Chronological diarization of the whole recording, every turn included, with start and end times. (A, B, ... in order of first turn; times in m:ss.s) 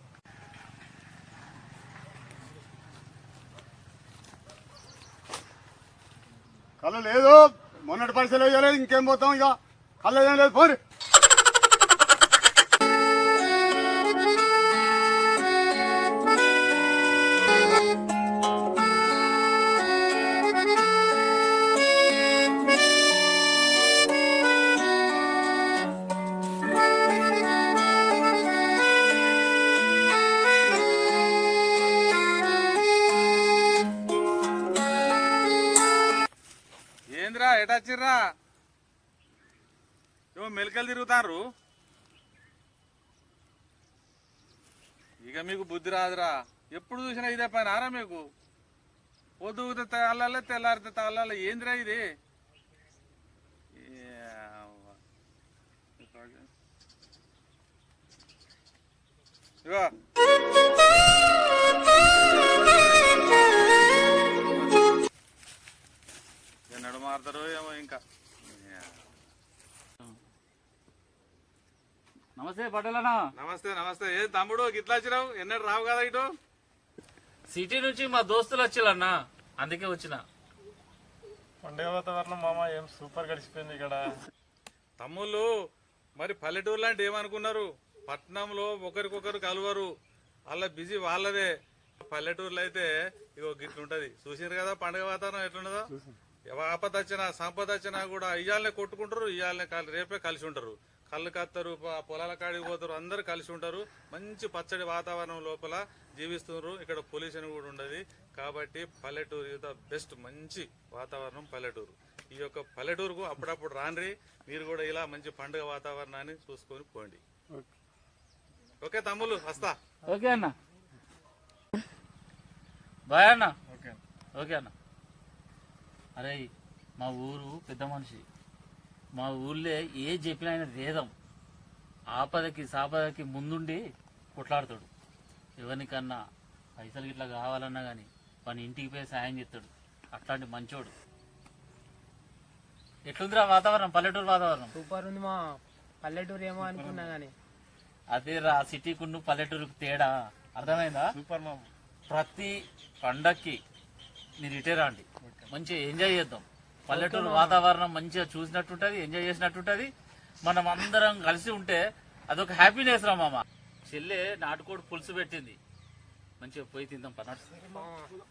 0:06.8-0:10.8 A
0:37.1-0:38.2 B
0:40.4-0:41.4 B
0:45.3-0:48.2 B
0:49.4-0:52.0 B
0:53.8-0:55.0 B
0:56.0-0:56.5 B
0:59.6-0:59.9 B
1:02.2-1:04.8 B
1:06.7-1:08.0 B
1:08.5-1:08.9 B
1:12.4-1:13.2 C
1:13.4-1:16.3 B
1:17.5-1:20.2 C
1:21.6-1:24.0 D
1:25.0-1:25.5 B
1:26.2-1:29.9 B
1:30.5-1:31.5 B
1:32.0-1:35.9 B
1:36.5-1:57.2 B
1:58.8-1:59.8 B
2:00.1-2:00.5 C
2:03.1-2:03.5 C
2:03.7-2:04.0 D
2:04.4-2:04.7 C
2:06.2-2:06.4 C
2:07.0-2:08.2 C
2:09.2-2:11.1 C
2:12.1-2:13.8 C
2:14.4-2:14.9 C
2:15.6-2:16.2 C
2:16.8-2:20.9 C
2:23.1-2:24.7 C
2:24.8-2:27.3 E
2:26.6-2:27.1 D
2:28.1-2:31.2 C
2:31.1-2:31.7 D
2:32.1-2:33.6 C
2:34.4-2:39.9 C
2:35.2-2:35.5 D
2:36.9-2:37.6 E
2:40.5-2:45.6 C
2:46.4-2:47.7 C
2:47.7-2:48.2 E